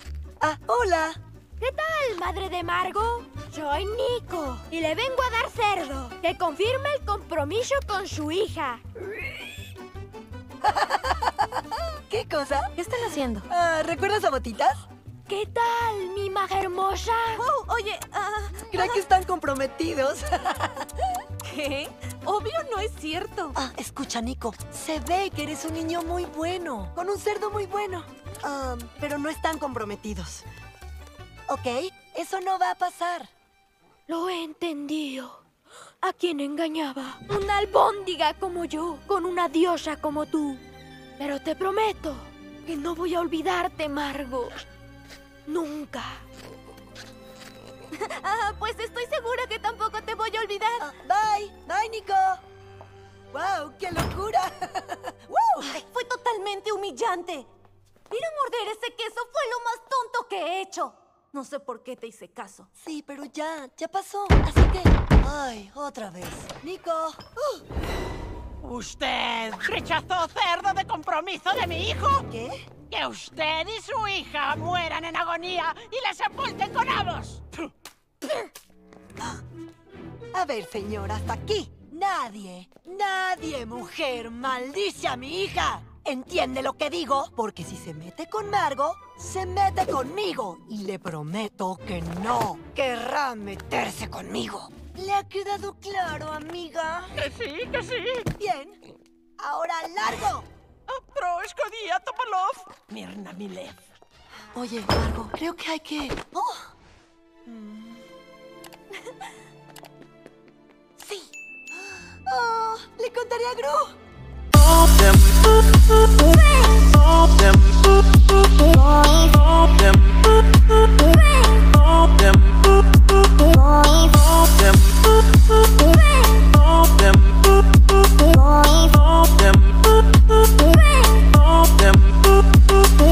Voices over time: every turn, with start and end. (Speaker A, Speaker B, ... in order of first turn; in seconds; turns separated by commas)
Speaker A: 0.4-1.2, Speaker B: 1.6-8.8, Speaker A: 10.6-12.7, Speaker C: 12.8-13.5, Speaker A: 13.5-14.8, Speaker B: 15.3-17.4, Speaker C: 17.4-19.0, Speaker A: 18.7-21.1, Speaker C: 21.4-23.6, Speaker A: 23.6-30.4, Speaker A: 31.5-33.3, Speaker B: 34.1-35.4, Speaker B: 36.0-40.6, Speaker B: 41.2-44.6, Speaker B: 45.5-46.2, Speaker C: 48.0-50.9, Speaker A: 50.8-52.4, Speaker A: 53.3-55.8, Speaker C: 55.6-57.5, Speaker C: 58.1-62.7, Speaker A: 62.8-67.6, Speaker D: 68.6-72.2, Speaker A: 72.3-72.7, Speaker D: 72.9-77.7, Speaker A: 80.3-97.1, Speaker D: 97.2-98.3, Speaker A: 98.3-98.8, Speaker A: 99.4-100.5, Speaker D: 100.9-103.8, Speaker A: 104.5-106.7, Speaker A: 107.5-108.0, Speaker A: 111.0-113.9, Speaker B: 130.7-131.1